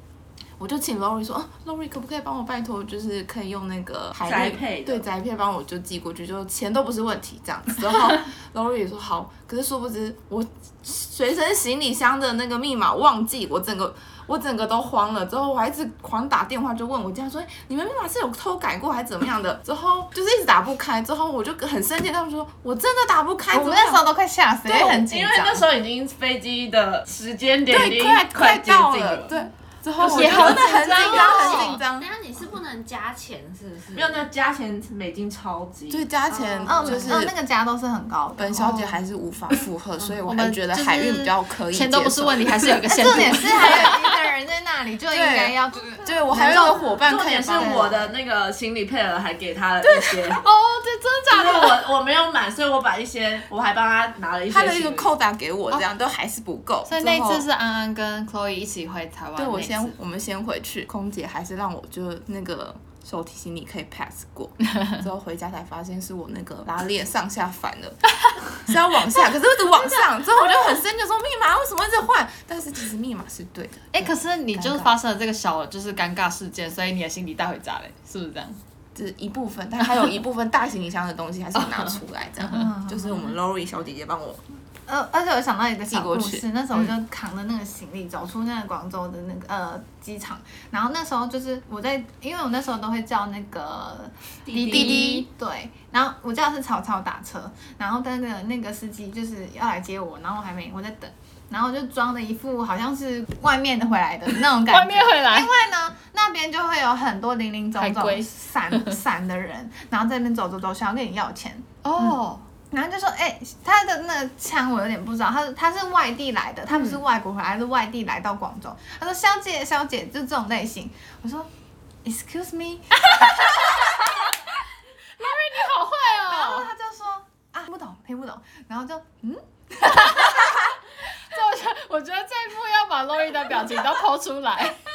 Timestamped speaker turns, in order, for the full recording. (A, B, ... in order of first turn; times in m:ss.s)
0:00.6-0:24.0 A
0:04.2-0:05.0 B
0:23.5-0:25.6 C
0:24.6-0:29.3 B
0:27.7-0:32.1 A
0:30.0-0:31.8 D
0:30.2-0:31.8 C
0:31.3-0:34.3 E
0:33.9-0:36.1 B
0:35.9-0:37.3 A
0:36.3-0:36.9 E
0:36.6-0:38.7 C
0:38.4-0:42.6 A
0:38.5-0:39.0 D
0:40.2-0:44.1 D
0:42.9-0:46.9 C
0:43.3-0:43.7 A
0:45.1-0:47.9 A
0:45.9-0:46.3 E
0:46.3-0:50.4 B
0:47.5-0:47.9 C
0:50.4-0:51.8 D
0:51.3-0:55.1 B
0:54.5-0:57.4 A
0:56.9-0:59.9 D
0:59.4-1:14.9 A
1:13.9-1:18.6 D
1:18.9-1:24.4 A
1:21.6-1:21.9 D
1:22.5-1:23.2 C
1:24.9-1:52.2 C
1:25.9-1:26.4 A
1:34.5-1:35.2 D
1:44.6-1:45.5 D
1:47.8-1:49.0 D
1:51.8-1:52.4 D
1:52.7-2:01.5 C
1:56.7-1:57.0 D
2:02.0-2:04.0 C
2:03.1-2:04.1 D
2:05.2-2:06.7 D
2:06.2-2:10.7 C
2:09.8-2:10.7 D
2:11.3-2:14.8 D